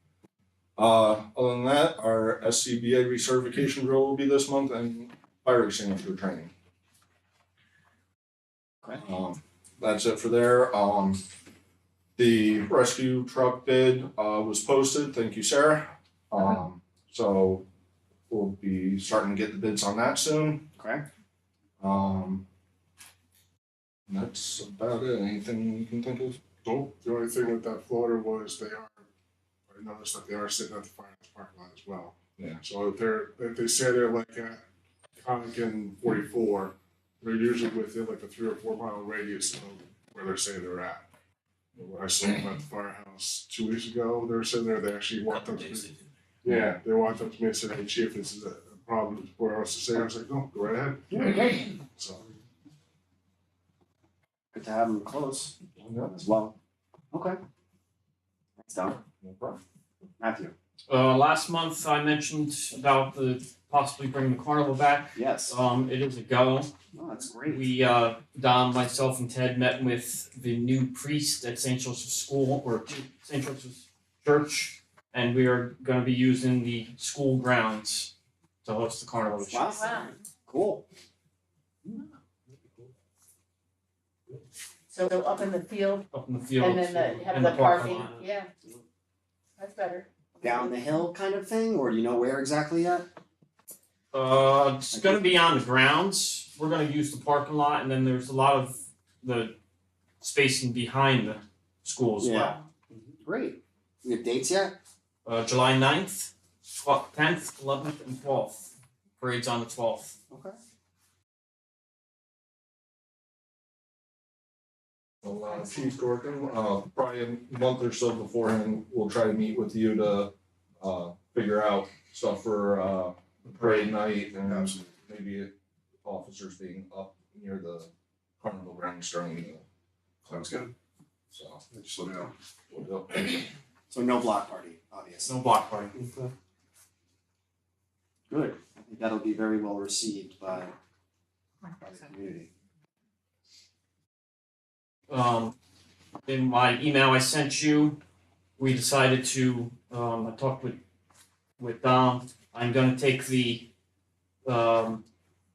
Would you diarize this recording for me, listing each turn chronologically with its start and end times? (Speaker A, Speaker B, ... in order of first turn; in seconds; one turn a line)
Speaker A: 0.8-6.5
Speaker A: 9.0-11.2
Speaker A: 12.2-17.7
Speaker A: 18.3-20.7
Speaker B: 20.8-21.1
Speaker A: 21.8-22.4
Speaker A: 24.1-26.4
Speaker C: 26.6-29.0
Speaker C: 29.7-34.6
Speaker C: 35.2-41.0
Speaker C: 41.8-52.2
Speaker A: 46.5-46.8
Speaker B: 51.1-51.6
Speaker B: 54.5-55.5
Speaker A: 55.8-56.2
Speaker B: 56.1-56.6
Speaker B: 57.1-57.4
Speaker B: 58.6-59.0
Speaker A: 59.0-59.6
Speaker B: 60.2-60.5
Speaker D: 60.9-66.8
Speaker B: 65.2-65.5
Speaker B: 66.9-67.6
Speaker D: 67.5-78.1
Speaker D: 78.6-79.9
Speaker B: 79.5-80.9
Speaker E: 79.7-80.2
Speaker E: 84.9-88.5
Speaker D: 86.1-88.2
Speaker E: 89.6-90.8
Speaker B: 90.4-93.1
Speaker D: 94.1-99.6
Speaker B: 94.9-95.2
Speaker D: 100.2-102.6
Speaker B: 102.2-102.5
Speaker B: 103.2-104.8
Speaker D: 105.2-110.2
Speaker B: 110.3-110.6
Speaker A: 115.2-125.5
Speaker A: 126.0-127.9
Speaker A: 128.4-129.6
Speaker C: 130.3-130.7
Speaker A: 131.3-131.6
Speaker C: 131.7-132.3
Speaker A: 132.7-133.5
Speaker B: 133.9-135.3
Speaker D: 135.2-135.9
Speaker B: 135.9-136.3
Speaker B: 138.3-140.8
Speaker B: 141.8-142.5
Speaker D: 145.1-145.6
Speaker D: 146.2-148.0
Speaker D: 148.6-150.8
Speaker D: 151.6-153.7
Speaker D: 154.4-155.0